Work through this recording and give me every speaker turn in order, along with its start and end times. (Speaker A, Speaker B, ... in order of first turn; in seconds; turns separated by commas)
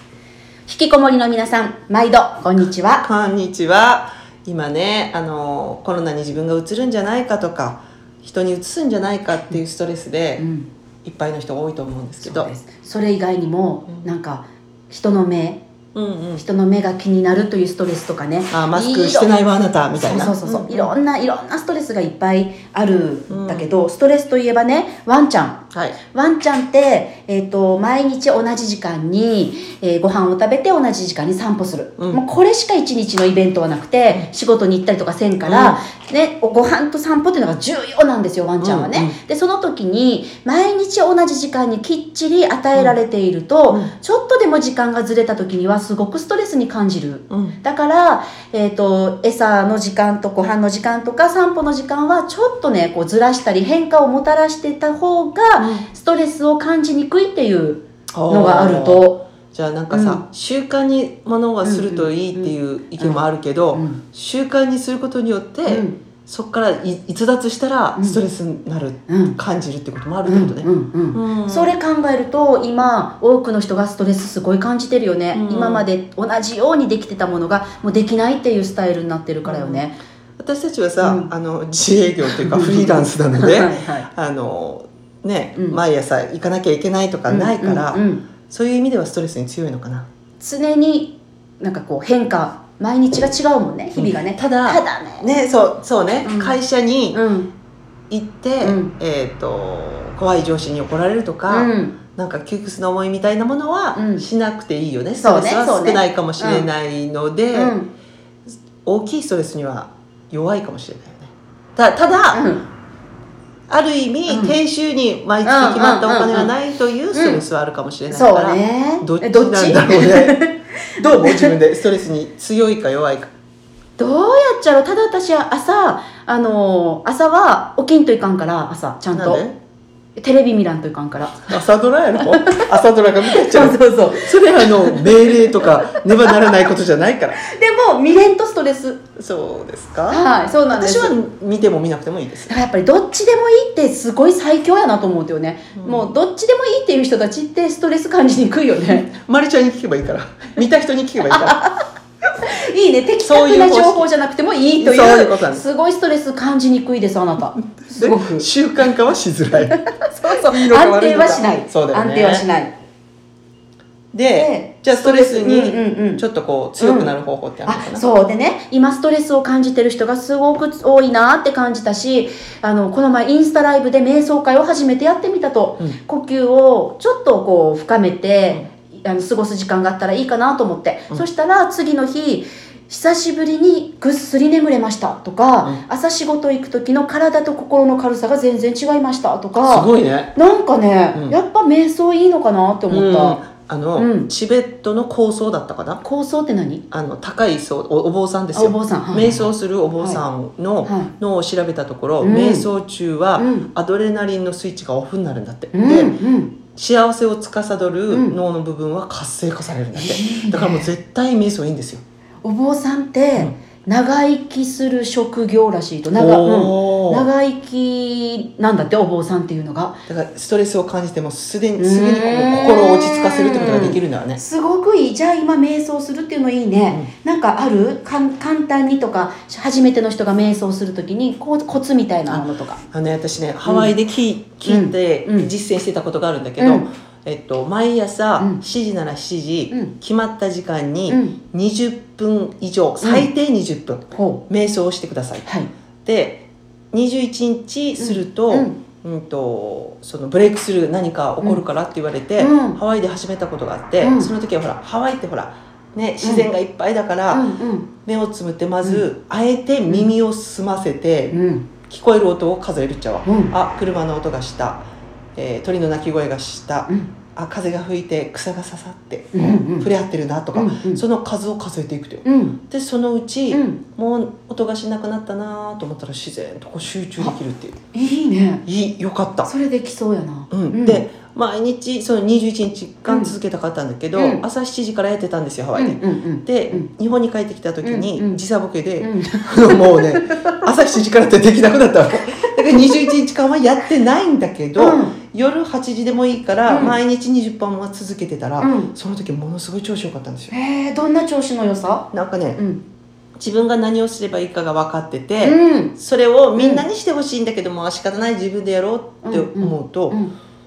Speaker A: 0.7-3.0, Speaker B: 3.0-10.4, Speaker A: 10.4-10.7, Speaker B: 11.0-12.5, Speaker A: 12.2-15.6, Speaker B: 15.9-16.4, Speaker A: 16.4-19.3, Speaker B: 18.5-20.9, Speaker A: 19.9-25.6, Speaker B: 23.3-23.7, Speaker A: 26.1-59.2, Speaker B: 35.4-35.8, Speaker B: 38.6-39.1, Speaker B: 47.3-47.6, Speaker B: 55.6-55.9, Speaker B: 58.1-71.7, Speaker A: 59.9-60.2, Speaker A: 61.6-64.0, Speaker A: 65.7-66.0, Speaker A: 69.1-69.3, Speaker A: 70.2-80.0, Speaker B: 75.3-75.9, Speaker B: 79.4-79.8, Speaker B: 80.4-90.1, Speaker A: 81.0-81.3, Speaker A: 82.2-84.1, Speaker A: 87.3-88.2, Speaker A: 90.4-95.3, Speaker B: 94.0-97.2, Speaker A: 96.2-96.6, Speaker A: 97.1-97.5, Speaker B: 98.1-107.8, Speaker A: 98.6-98.9, Speaker A: 101.5-101.9, Speaker A: 104.0-104.2, Speaker A: 105.2-106.7, Speaker A: 107.5-107.9, Speaker B: 108.8-112.5, Speaker A: 112.3-112.6, Speaker B: 113.7-120.4, Speaker A: 114.3-114.5, Speaker A: 115.4-116.5, Speaker A: 117.1-117.4, Speaker A: 118.1-121.5, Speaker B: 121.0-123.3, Speaker A: 124.0-129.4, Speaker B: 129.1-129.6, Speaker A: 130.2-131.6, Speaker B: 131.4-137.4, Speaker A: 132.2-132.7, Speaker A: 133.2-136.6, Speaker A: 137.4-139.0, Speaker B: 139.2-142.5, Speaker A: 140.1-141.1, Speaker A: 142.5-149.1, Speaker B: 145.8-146.1, Speaker B: 149.1-151.6, Speaker A: 151.3-151.7, Speaker A: 152.5-158.4, Speaker B: 153.2-154.1, Speaker B: 154.8-155.6, Speaker B: 157.8-159.8, Speaker A: 159.5-162.7, Speaker B: 160.3-162.4, Speaker B: 164.1-168.1, Speaker A: 164.3-166.2, Speaker A: 166.8-167.1, Speaker A: 167.7-193.4, Speaker B: 189.7-190.3, Speaker B: 192.9-196.0, Speaker A: 193.9-194.3, Speaker A: 196.0-196.8, Speaker B: 196.9-206.1, Speaker A: 198.5-200.2, Speaker A: 200.8-201.1, Speaker A: 202.2-202.7, Speaker A: 203.4-203.7, Speaker A: 205.7-206.5, Speaker B: 206.7-212.0, Speaker A: 208.1-208.3, Speaker A: 209.9-210.9, Speaker A: 212.4-220.0, Speaker B: 216.1-217.2, Speaker B: 220.1-224.4, Speaker A: 221.8-232.8, Speaker B: 232.3-245.5, Speaker A: 233.7-233.9, Speaker A: 234.7-235.5, Speaker A: 236.6-236.8, Speaker A: 241.1-241.4, Speaker A: 243.0-243.3, Speaker A: 244.1-244.4, Speaker B: 246.0-257.4, Speaker A: 248.0-248.8, Speaker A: 252.4-252.8, Speaker A: 254.0-254.3, Speaker A: 256.2-256.5, Speaker A: 257.3-257.9, Speaker B: 258.0-261.4, Speaker A: 261.3-261.7, Speaker B: 261.9-277.8, Speaker A: 263.2-263.5, Speaker A: 269.3-269.9, Speaker A: 270.5-271.0, Speaker A: 272.2-272.6, Speaker A: 273.5-273.8, Speaker A: 277.9-278.6, Speaker B: 278.6-279.5, Speaker A: 279.4-281.0, Speaker B: 280.5-300.5, Speaker A: 283.1-283.3, Speaker A: 284.1-284.4, Speaker A: 285.8-286.9, Speaker A: 287.8-288.4, Speaker A: 289.0-290.6, Speaker A: 294.8-295.2, Speaker A: 296.7-297.0, Speaker A: 298.6-298.9, Speaker A: 300.5-302.8, Speaker B: 302.1-302.6, Speaker B: 303.4-310.2, Speaker A: 305.4-305.9, Speaker A: 306.6-306.8, Speaker A: 309.2-310.3